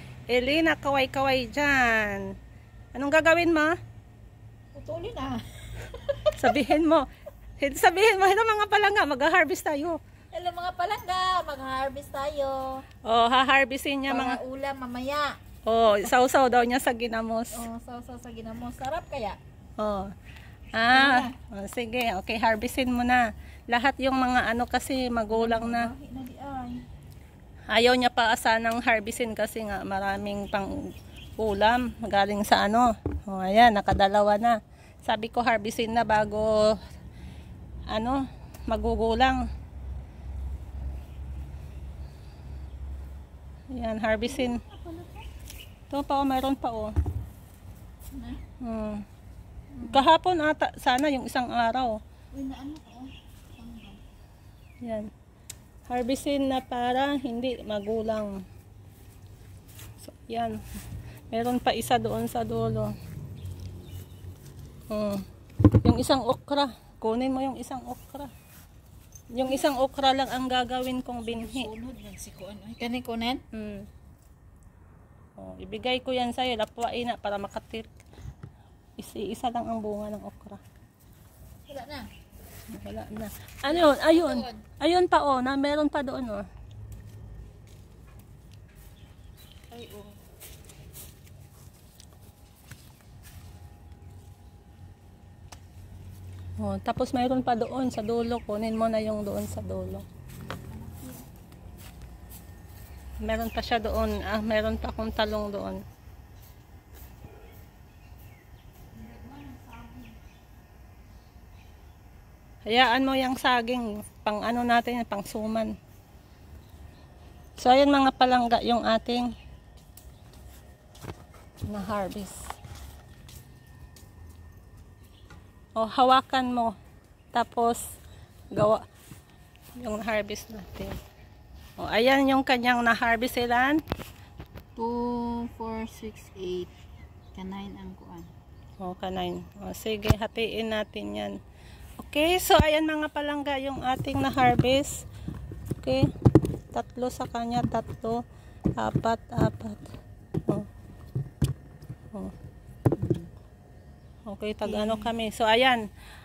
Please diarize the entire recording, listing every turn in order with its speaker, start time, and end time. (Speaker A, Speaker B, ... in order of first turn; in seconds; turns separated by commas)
Speaker A: 0.3-2.3, Speaker A: 2.9-3.8, Speaker B: 4.7-6.5, Speaker A: 6.3-7.1, Speaker A: 7.6-10.0, Speaker B: 10.3-12.8, Speaker A: 13.0-14.4, Speaker B: 14.1-15.3, Speaker A: 15.7-17.7, Speaker B: 17.5-19.4, Speaker A: 19.8-20.1, Speaker A: 20.7-25.9, Speaker B: 20.9-21.3, Speaker B: 25.3-26.8, Speaker A: 27.7-30.9, Speaker A: 31.4-36.8, Speaker A: 37.9-39.4, Speaker A: 43.7-44.6, Speaker B: 44.3-45.3, Speaker A: 45.9-46.9, Speaker B: 48.1-48.4, Speaker A: 48.6-49.0, Speaker B: 49.7-50.0, Speaker A: 49.9-52.0, Speaker B: 52.3-54.0, Speaker A: 54.8-55.1, Speaker A: 55.9-58.4, Speaker A: 60.0-60.6, Speaker A: 61.3-62.9, Speaker A: 64.9-68.3, Speaker A: 69.3-71.7, Speaker B: 71.3-73.4, Speaker A: 73.5-73.9, Speaker A: 75.4-77.9, Speaker A: 79.0-80.6, Speaker B: 81.7-82.1, Speaker A: 82.7-86.5, Speaker B: 83.7-84.6, Speaker B: 89.7-90.2, Speaker A: 96.6-100.0, Speaker B: 100.5-101.2, Speaker A: 103.2-105.8, Speaker B: 109.0-110.1, Speaker A: 112.7-115.7, Speaker A: 117.6-119.3, Speaker A: 121.7-122.4, Speaker A: 125.8-126.8, Speaker A: 127.3-127.8, Speaker A: 128.5-128.8, Speaker A: 129.8-131.0, Speaker A: 131.8-133.8, Speaker B: 134.8-136.7, Speaker B: 137.3-138.3, Speaker A: 138.8-141.3, Speaker A: 142.0-145.0, Speaker A: 145.8-148.2, Speaker A: 148.8-149.8, Speaker B: 153.0-153.3, Speaker A: 154.3-155.8, Speaker B: 154.6-155.1